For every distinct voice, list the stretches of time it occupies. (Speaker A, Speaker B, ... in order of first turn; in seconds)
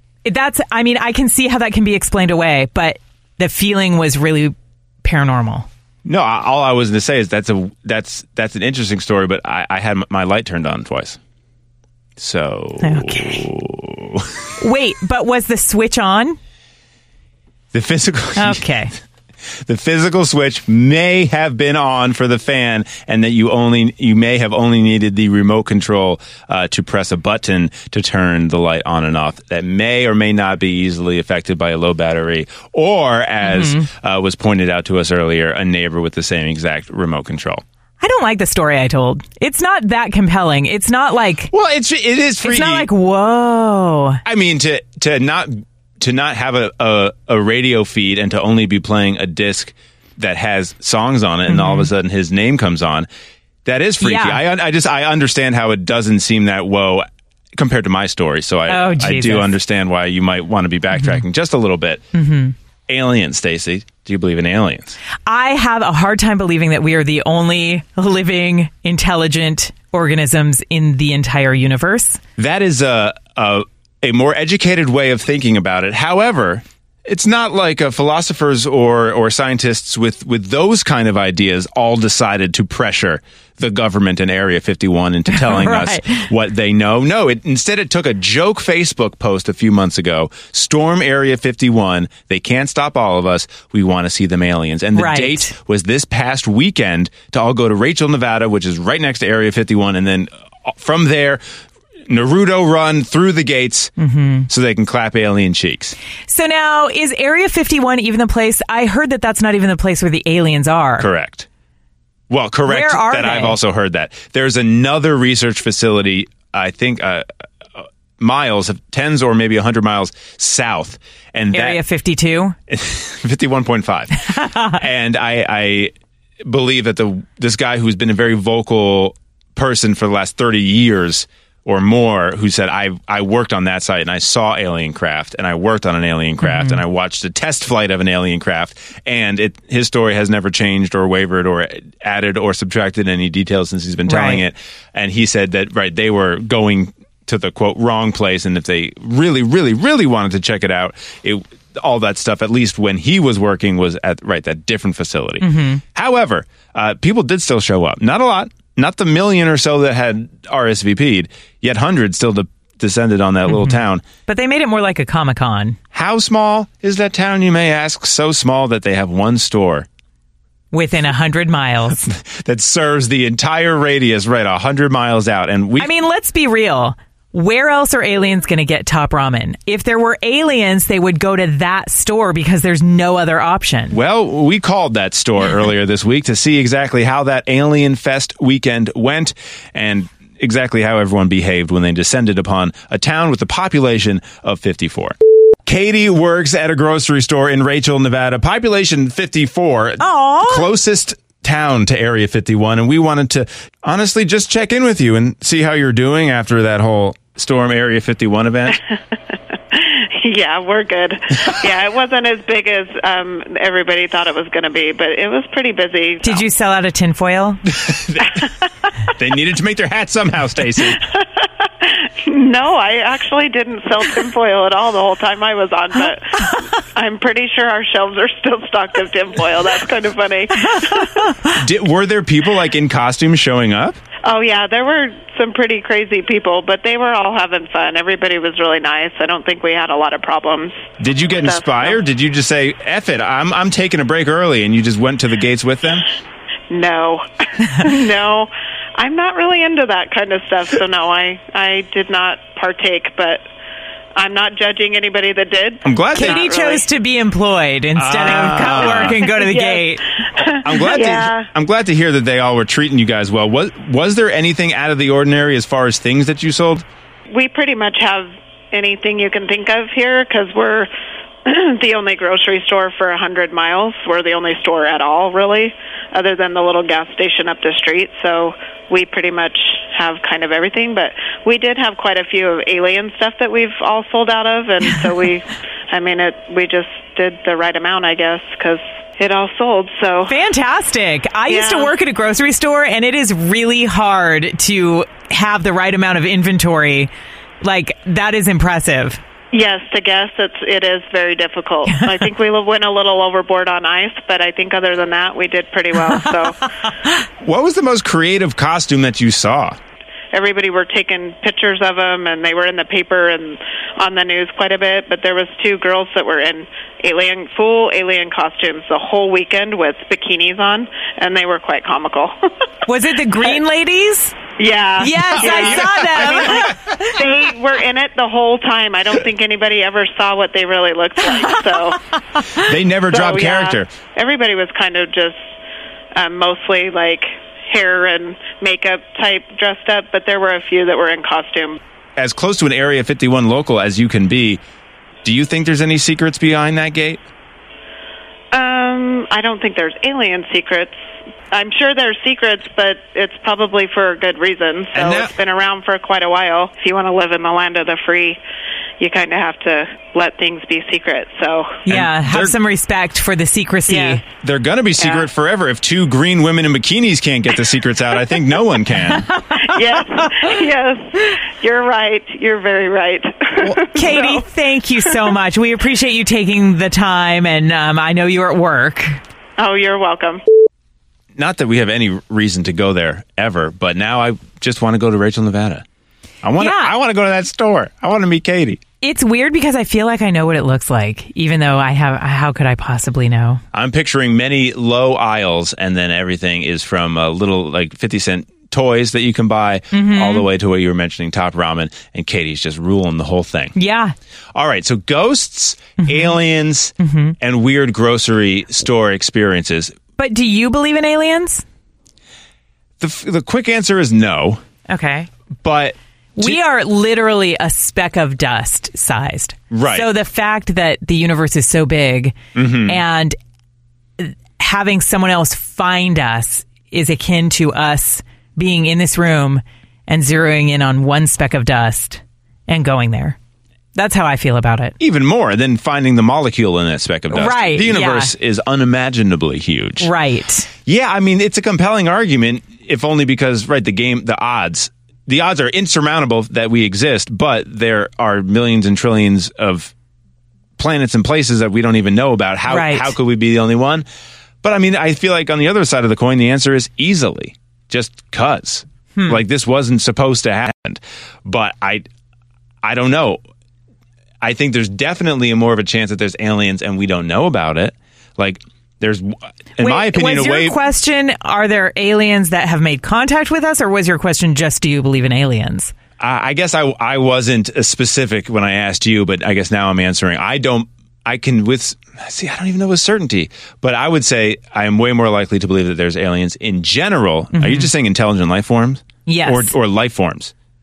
Speaker A: 0.2-5.7, 12.8-13.4, 14.6-16.4, 18.4-18.9, 33.4-33.9, 38.0-41.5, 42.4-44.2, 51.5-51.9, 54.0-54.4, 58.7-59.5, 61.0-61.2, 62.1-62.5, 65.3-72.2, 85.3-86.3, 95.0-95.5, 104.0-104.5, 106.3-111.1, 112.7-113.6, 121.5-122.6, 124.3-124.8, 136.4-136.8, 144.1-144.4, 155.4-155.8, 163.5-165.8, 170.7-172.1, 175.8-184.0, 200.0-200.7, 216.2-217.7, 230.6-231.5, 256.1-260.0, 290.3-297.1, 297.6-299.2, 301.9-302.2, 322.9-324.4, 325.0-327.2, 361.9-364.2, 369.3-370.5, 373.8-379.2, 386.6-386.9, 389.0-393.6, 399.9-400.5, 403.8-404.1, 406.0-406.4, 407.0-407.4, 410.2-411.6, 414.9-415.3, 416.4-423.4, 424.2-433.4, 433.9-434.9, 437.3-438.3, 440.0-440.7, 452.7-453.1, 459.2-459.4, 469.8-475.9, 487.5-487.9, 489.3-489.7
Speaker B: 6.0-11.2, 12.2-14.5, 17.7-18.7, 19.5-37.6, 41.5-42.9, 44.2-53.1, 53.6-62.0, 62.9-65.0, 72.4-101.4, 102.1-103.9, 104.5-106.0, 111.0-111.5, 112.3-121.8, 122.7-164.1, 165.9-169.9, 172.1-175.9, 183.9-208.8, 217.7-218.5, 219.2-221.0, 231.5-234.0, 241.0-246.1, 255.8-256.5, 258.0-259.2, 260.6-266.9, 307.4-309.8, 325.3-326.8, 332.6-333.9, 342.2-344.6, 345.2-347.2, 354.9-355.3, 361.9-362.6, 364.3-369.3, 381.4-385.9, 386.4-388.8, 393.7-403.8, 404.6-410.0, 413.0-414.6, 415.6-416.6, 419.7-420.1, 422.6-423.0, 435.0-440.1, 440.9-449.9, 450.8-454.1, 454.6-462.1, 462.8-463.4, 464.4-470.8, 476.2-490.5
Speaker C: 209.7-216.5, 221.4-231.3, 234.2-240.9, 241.4-242.0, 246.7-253.4, 254.2-256.8, 258.4-261.5, 267.3-270.9, 271.4-290.4, 291.5-291.9, 299.5-306.7, 310.3-322.4, 324.6-332.0, 333.1-335.5, 336.1-341.8, 348.5-351.0, 351.5-358.4, 359.0-361.8, 363.9-364.2, 369.5-374.4, 379.6-380.4